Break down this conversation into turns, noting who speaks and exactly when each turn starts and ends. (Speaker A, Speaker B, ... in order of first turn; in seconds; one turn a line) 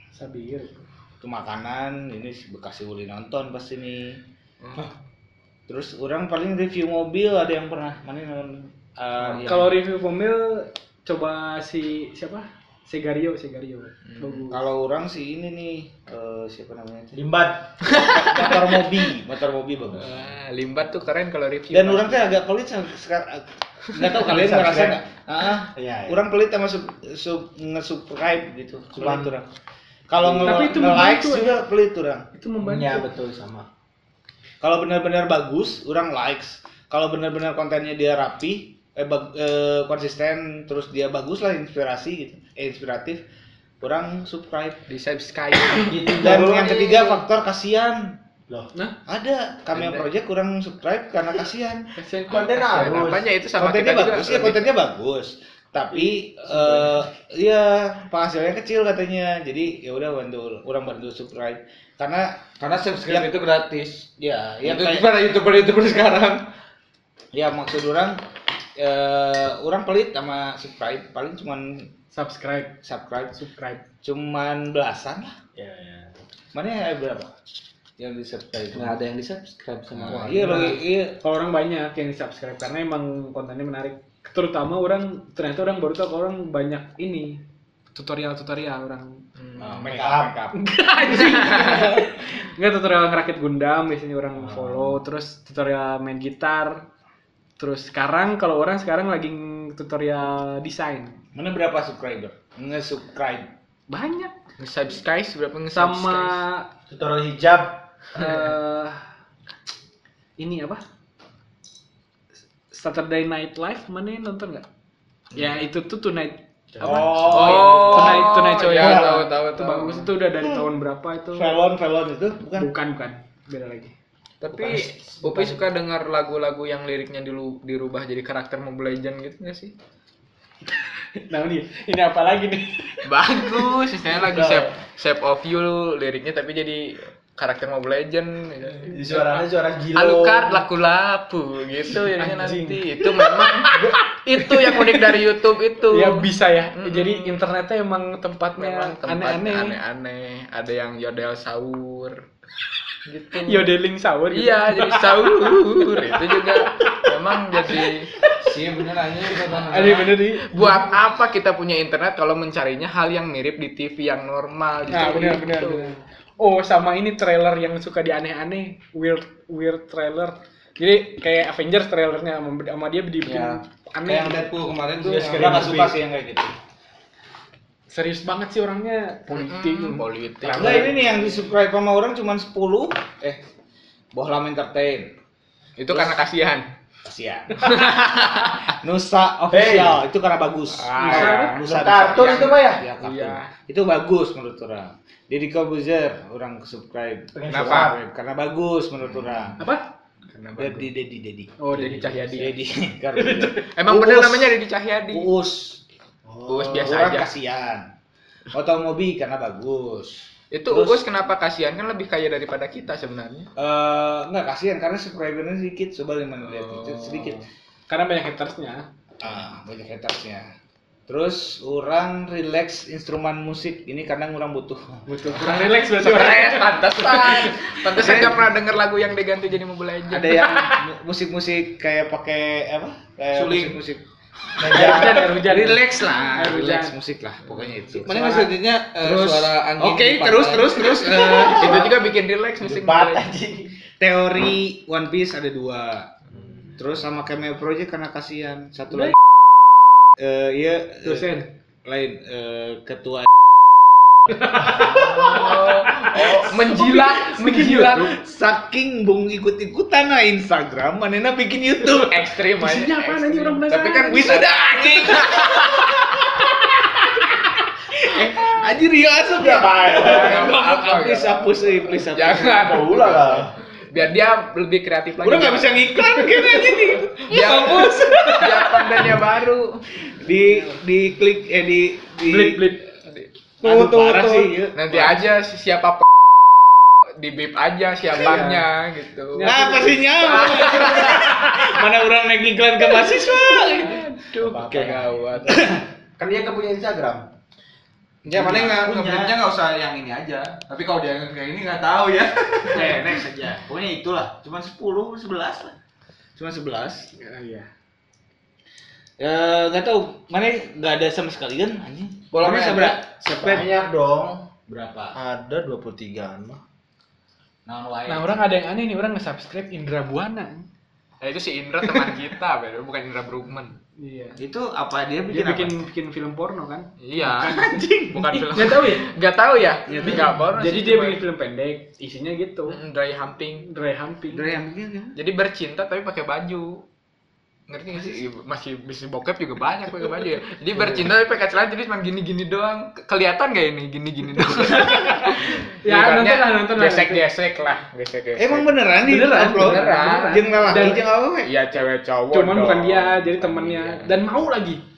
Speaker A: 0.1-0.8
Speaker B: 1.2-4.2
Speaker C: 4.6-4.9
Speaker B: 5.7-9.8
Speaker A: 9.4-14.6
Speaker C: 14.1-14.5
Speaker B: 14.5-17.2
Speaker D: 17.1-17.9
Speaker C: 17.8-18.8
Speaker B: 17.9-20.1
Speaker C: 19.9-22.4
Speaker B: 21.7-29.5
Speaker D: 24.0-25.0
Speaker D: 25.7-26.2
Speaker D: 28.9-29.3
Speaker B: 30.1-32.3
Speaker D: 30.1-31.0
Speaker A: 30.4-31.5
Speaker A: 32.3-33.1
Speaker D: 32.6-33.7
Speaker B: 34.6-43.2
Speaker B: 43.8-44.8
Speaker C: 44.9-46.2
Speaker D: 45.8-47.2
Speaker B: 46.1-48.2
Speaker B: 49.1-51.9
Speaker C: 49.7-50.1
Speaker A: 52.0-52.9
Speaker D: 52.3-53.3
Speaker C: 52.5-54.7
Speaker B: 53.6-63.4
Speaker D: 56.5-56.9
Speaker E: 62.6-64.0
Speaker B: 64.0-65.1
Speaker E: 64.6-66.4
Speaker B: 67.3-68.2
Speaker B: 68.8-71.9
Speaker A: 72.1-72.8
Speaker B: 72.8-73.4
Speaker A: 73.3-73.8
Speaker B: 74.0-75.3
Speaker D: 75.5-76.1
Speaker B: 76.5-77.3
Speaker B: 78.0-81.2
Speaker D: 79.9-80.8
Speaker A: 80.4-87.4
Speaker A: 87.9-89.2
Speaker C: 89.4-90.4
Speaker B: 89.6-90.5
Speaker D: 89.8-90.3
Speaker A: 90.5-96.9
Speaker C: 91.0-91.9
Speaker D: 94.4-95.0
Speaker A: 97.6-101.2
Speaker B: 101.3-103.5
Speaker A: 103.9-104.3
Speaker C: 104.6-106.4
Speaker A: 105.7-106.7
Speaker D: 106.9-107.8
Speaker A: 108.2-109.0
Speaker A: 110.4-110.8
Speaker A: 112.7-114.7
Speaker A: 115.3-121.6
Speaker D: 116.8-118.0
Speaker B: 116.8-118.2
Speaker C: 117.3-120.1
Speaker B: 118.8-119.1
Speaker B: 121.3-122.7
Speaker A: 122.6-124.0
Speaker C: 124.4-129.7
Speaker D: 124.5-125.6
Speaker A: 130.8-133.1
Speaker C: 133.0-147.4
Speaker D: 134.2-134.7
Speaker D: 138.9-140.6
Speaker A: 142.1-145.2
Speaker A: 145.9-149.8
Speaker C: 148.6-152.2
Speaker C: 153.1-153.7
Speaker A: 153.4-157.1
Speaker C: 154.3-158.1
Speaker A: 157.7-158.5
Speaker E: 158.4-160.1
Speaker A: 159.5-160.9
Speaker C: 160.4-165.9
Speaker A: 164.9-174.5
Speaker E: 174.1-175.6
Speaker B: 174.1-174.4
Speaker D: 175.0-176.0
Speaker B: 175.0-176.5
Speaker A: 177.9-181.3
Speaker C: 179.3-180.8
Speaker D: 180.5-180.9
Speaker B: 180.5-183.4
Speaker B: 184.1-185.2
Speaker C: 185.8-186.7
Speaker B: 185.9-186.2
Speaker B: 187.0-199.6
Speaker C: 187.6-188.7
Speaker D: 189.5-190.0
Speaker C: 190.7-193.5
Speaker A: 191.0-191.6
Speaker D: 191.6-192.8
Speaker D: 197.3-198.0
Speaker C: 197.5-197.9
Speaker A: 199.6-199.9
Speaker C: 200.3-200.9
Speaker B: 200.6-204.6
Speaker A: 201.6-202.2
Speaker C: 201.7-202.6
Speaker A: 203.2-203.6
Speaker C: 203.6-205.3
Speaker B: 205.1-205.8
Speaker D: 206.2-207.0
Speaker C: 206.5-207.3
Speaker B: 206.8-207.9
Speaker B: 208.5-211.0
Speaker C: 210.5-213.5
Speaker B: 213.6-217.4
Speaker C: 216.4-217.4
Speaker A: 217.9-218.9
Speaker B: 219.2-220.5
Speaker B: 221.1-225.1
Speaker A: 225.1-227.8
Speaker C: 225.4-230.6
Speaker B: 227.9-228.4
Speaker B: 230.1-234.0
Speaker A: 230.3-230.8
Speaker E: 233.3-233.8
Speaker B: 234.6-241.9
Speaker D: 234.6-235.4
Speaker A: 234.7-237.0
Speaker C: 237.5-237.7
Speaker E: 238.0-241.5
Speaker A: 238.1-238.5
Speaker C: 241.2-243.3
Speaker D: 241.3-241.9
Speaker D: 242.6-243.7
Speaker B: 244.0-246.1
Speaker B: 246.8-249.2
Speaker B: 250.2-251.3
Speaker A: 251.0-251.5
Speaker B: 251.8-253.3
Speaker A: 254.3-256.1
Speaker D: 254.6-255.4
Speaker B: 254.7-257.0
Speaker C: 254.9-258.2
Speaker A: 257.2-258.1
Speaker B: 258.0-262.3
Speaker C: 261.9-266.1
Speaker A: 262.6-264.5
Speaker B: 264.1-266.4
Speaker B: 267.9-272.8
Speaker D: 269.3-270.5
Speaker C: 269.8-276.0
Speaker D: 272.5-273.5
Speaker B: 275.2-279.0
Speaker C: 277.3-279.8
Speaker B: 280.2-282.7
Speaker A: 282.2-282.9
Speaker B: 283.6-285.2
Speaker E: 283.7-284.5
Speaker D: 284.1-284.4
Speaker C: 284.7-286.1
Speaker C: 287.2-289.6
Speaker A: 288.1-288.7
Speaker A: 289.3-291.4
Speaker B: 289.4-294.1
Speaker C: 290.2-291.5
Speaker C: 293.4-295.7
Speaker D: 294.4-297.3
Speaker B: 295.5-295.8
Speaker E: 298.2-303.0
Speaker D: 298.3-299.4
Speaker B: 302.7-305.7
Speaker B: 306.4-307.1
Speaker A: 307.1-307.7
Speaker B: 309.2-313.7
Speaker E: 312.3-313.0
Speaker D: 313.2-314.5
Speaker B: 314.7-315.2
Speaker D: 315.1-316.6
Speaker B: 317.7-318.4
Speaker A: 318.1-320.7
Speaker C: 321.2-323.8
Speaker A: 321.9-322.2
Speaker A: 324.0-324.4
Speaker B: 324.4-325.8
Speaker A: 325.3-329.1
Speaker C: 327.0-331.2
Speaker B: 329.9-330.2
Speaker A: 330.0-332.8
Speaker C: 332.7-333.7
Speaker A: 333.6-334.5
Speaker B: 334.3-335.2
Speaker C: 335.1-336.9
Speaker C: 337.7-348.8
Speaker A: 344.7-347.2
Speaker B: 348.4-351.5
Speaker A: 349.0-351.1
Speaker C: 349.4-350.7
Speaker C: 351.4-354.1
Speaker A: 352.3-354.9